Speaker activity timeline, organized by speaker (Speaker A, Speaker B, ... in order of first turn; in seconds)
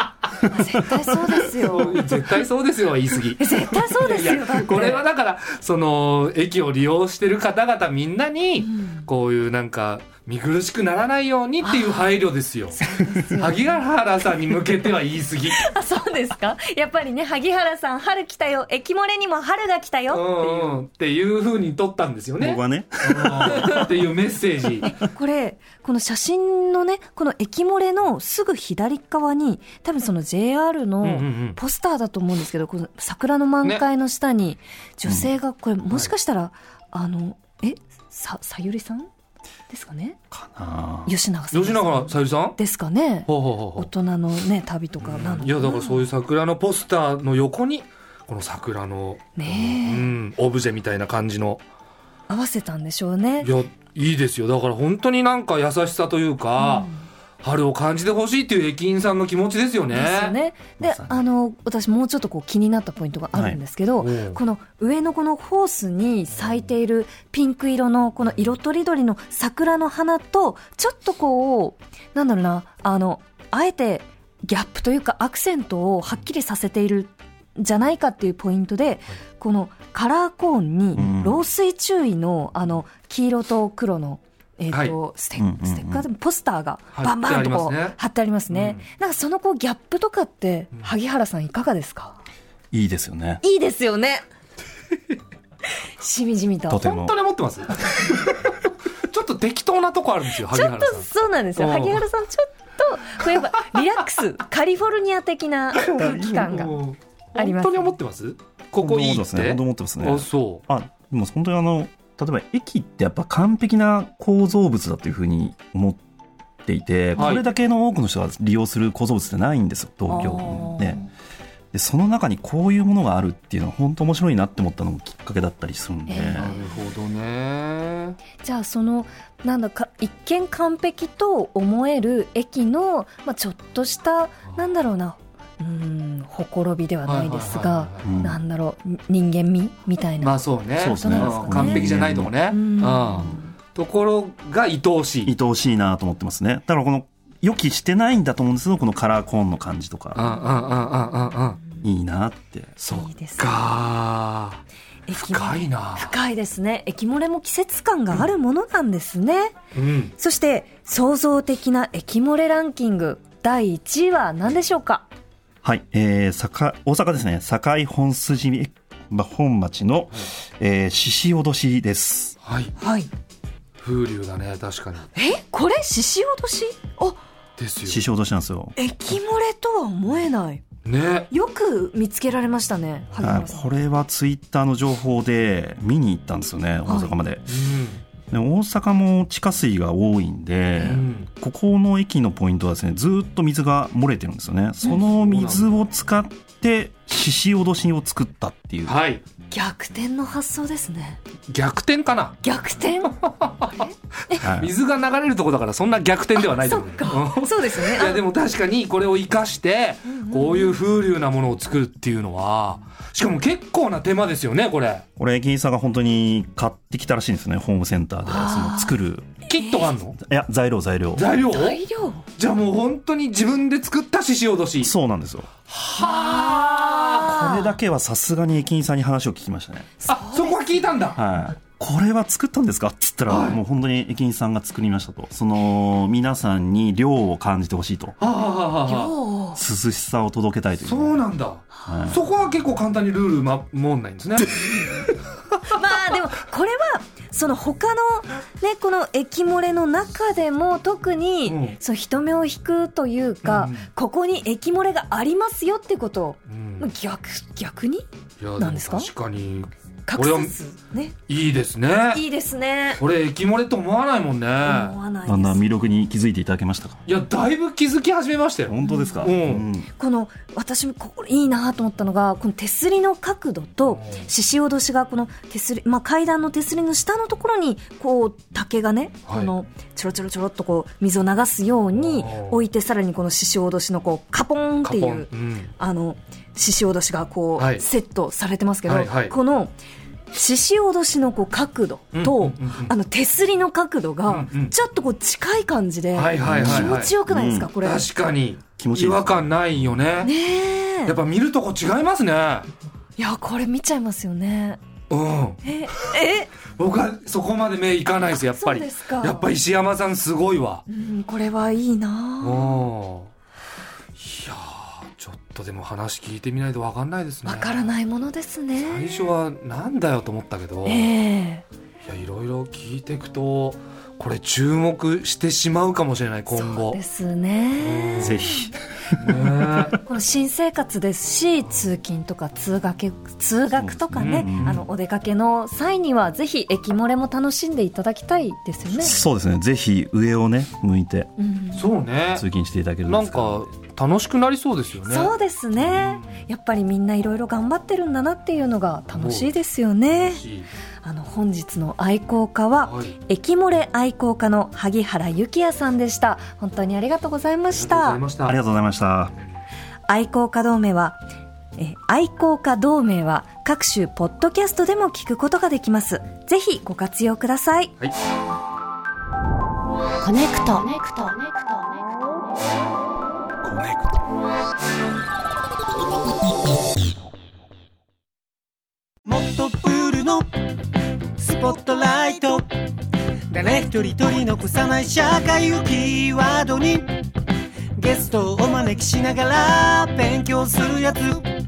Speaker A: 0.5-2.0, 3.4-5.0, 8.6-9.1, 11.6-12.2, 12.7-13.8, 15.6-20.8, 24.8-39.1, 39.7-40.2, 41.1-46.1, 49.4-50.1, 52.3-53.5, 56.6-57.0, 59.9-92.2, 93.4-94.2, 96.0-96.8, 100.5-106.8, 107.4-107.9, 120.1-121.1, 126.1-126.7, 128.4-140.4, 141.0-143.5, 152.9-153.6, 155.1-159.6, 160.2-165.1, 172.8-173.1, 175.2-177.2, 178.8-180.7, 181.3-183.7, 186.9-187.1, 199.5-201.2, 202.4-204.4, 206.4-208.2, 210.1-210.8, 218.2-218.9, 219.5-219.9, 221.5-222.2, 226.0-227.7, 230.0-230.9, 238.9-239.6, 245.7-258.1, 258.6-259.1, 260.1-261.1, 262.1-263.0, 264.6-265.6, 268.8-269.3, 270.0-289.7, 290.3-298.1, 300.2-301.2, 303.2-304.8, 305.6-306.5, 308.4-309.4, 310.9-312.8, 317.4-319.1, 320.9-321.6, 326.5-328.7, 329.9-339.2, 341.4-341.8, 345.1-350.4, 351.0-358.2, 360.1-361.2, 361.8-367.9
Speaker B: 1.6-15.7, 20.1-24.9, 31.0-31.6, 41.5-42.6, 43.3-43.9, 45.0-51.6, 53.4-56.9, 57.4-60.4, 64.0-64.4, 86.9-88.0, 88.5-88.8, 96.8-98.5, 99.1-102.0, 105.8-110.6, 117.2-117.4, 126.4-128.2, 137.1-138.1, 140.2-145.3, 150.2-151.6, 152.8-154.6, 155.2-156.2, 159.8-160.2, 172.4-172.7, 173.8-175.1, 177.6-178.0, 180.8-181.3, 183.1-183.4, 187.5-188.0, 190.8-191.3, 194.8-195.7, 198.9-199.2, 201.5-202.4, 203.2-215.1, 219.5-220.2, 221.2-221.8, 222.4-224.9, 225.7-227.4, 230.1-231.2, 233.3-233.6, 238.2-239.2, 240.8-245.0, 251.5-251.8, 253.4-253.9, 256.5-256.9, 258.4-260.5, 261.3-262.2, 263.0-265.0, 267.1-269.7, 273.9-274.2, 279.3-279.5, 282.0-282.6, 284.8-285.7, 287.6-287.9, 288.9-289.4, 292.1-292.9, 294.3-294.7, 296.1-297.1, 297.8-300.3, 301.1-302.7, 305.1-305.6, 306.7-310.9, 312.4-313.3, 314.2-317.9, 318.8-321.1, 322.0-327.0, 327.8-328.4, 329.2-330.0, 334.1-334.8, 341.7-342.5, 343.1-345.3, 345.9-346.4, 349.1-349.5, 350.1-350.7, 352.8-353.1, 357.7-358.6, 373.6-374.0
Speaker C: 22.4-23.9, 35.0-35.3, 40.3-41.1, 60.8-61.2, 63.3-63.6, 80.9-81.4, 85.4-86.0, 92.7-93.4, 96.7-97.2, 105.9-106.5, 108.8-116.0, 116.7-121.0, 121.7-126.5, 138.0-138.4, 140.8-142.3, 145.3-150.2, 151.8-152.7, 165.6-172.4, 177.8-178.8, 183.2-187.6, 188.3-199.0, 204.4-204.7, 215.2-219.3, 220.2-221.3, 224.8-225.5, 227.2-229.9, 231.2-238.2, 239.6-241.2, 241.9-242.2, 265.3-267.0, 268.7-269.9, 296.4-297.7, 298.8-299.5, 328.2-329.2, 333.7-334.8, 338.9-341.3, 342.3-343.7, 358.5-359.4
Speaker D: 370.2-372.3
Speaker E: 379.2-380.5, 381.4-382.7, 383.5-387.1, 388.0-391.4